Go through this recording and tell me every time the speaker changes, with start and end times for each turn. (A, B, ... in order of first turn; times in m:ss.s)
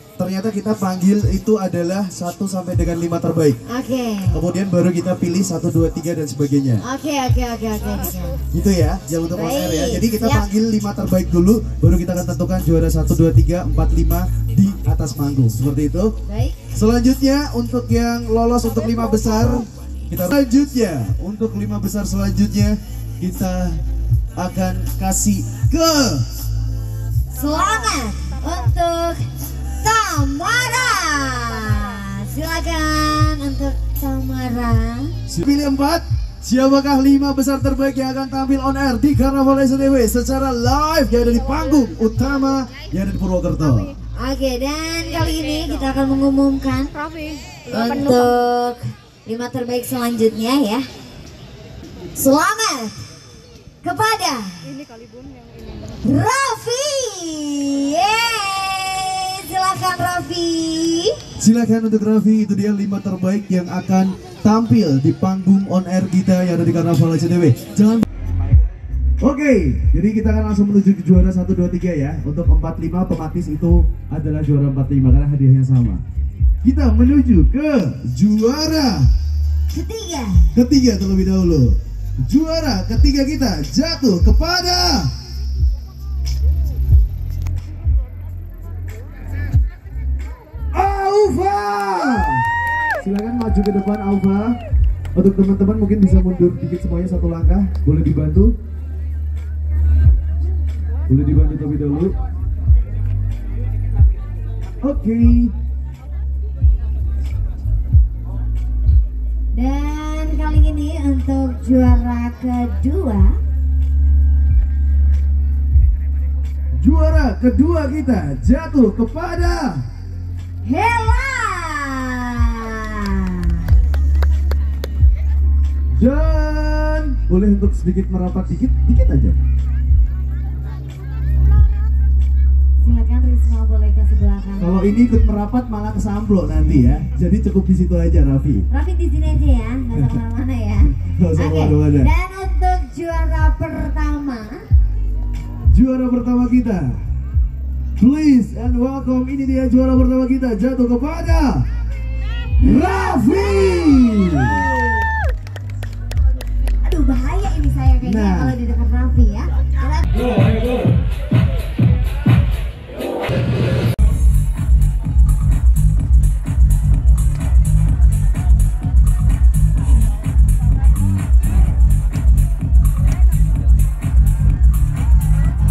0:00.2-0:03.6 A
0:03.7-0:04.4 B
0:04.3-0:06.8 A
0:06.8-0:08.4 B
0:08.5-0:16.2 A
0:09.3-0:10.5 B
0:16.3-0:16.8 B
0:16.8-0:23.8 A
0:18.9-0:19.7 B
0:24.4-0:26.3 A
0:27.3-0:29.3 B
0:27.5-0:28.6 C
0:29.8-0:35.2 B
0:35.3-0:44.0 A
0:44.2-0:47.0 B
0:47.0-0:48.3 C
0:47.7-0:50.8 B
0:52.2-0:53.0 B
0:53.8-0:54.7 B
0:54.7-0:56.0 C
0:56.0-1:01.2 B
1:01.4-1:08.0 A
1:09.2-1:16.0 A
1:16.6-1:19.1 A
1:19.7-1:20.6 B
1:20.6-1:25.1 A
1:30.7-1:32.5 A
1:33.0-1:34.6 A
1:35.2-1:38.5 A
1:41.1-1:42.2 A
1:44.8-1:45.5 A
1:49.5-1:53.4 B
1:56.8-1:59.8 A
2:00.6-2:03.7 B
2:05.9-2:09.4 A
2:12.8-2:14.8 B
2:14.6-2:18.7 A
2:18.7-2:24.7 B
2:21.0-2:22.1 A
2:25.7-2:27.0 A
2:28.0-2:31.7 A
2:32.6-2:34.7 A
2:33.1-2:35.2 B
2:36.8-2:40.2 B
2:38.0-2:38.6 A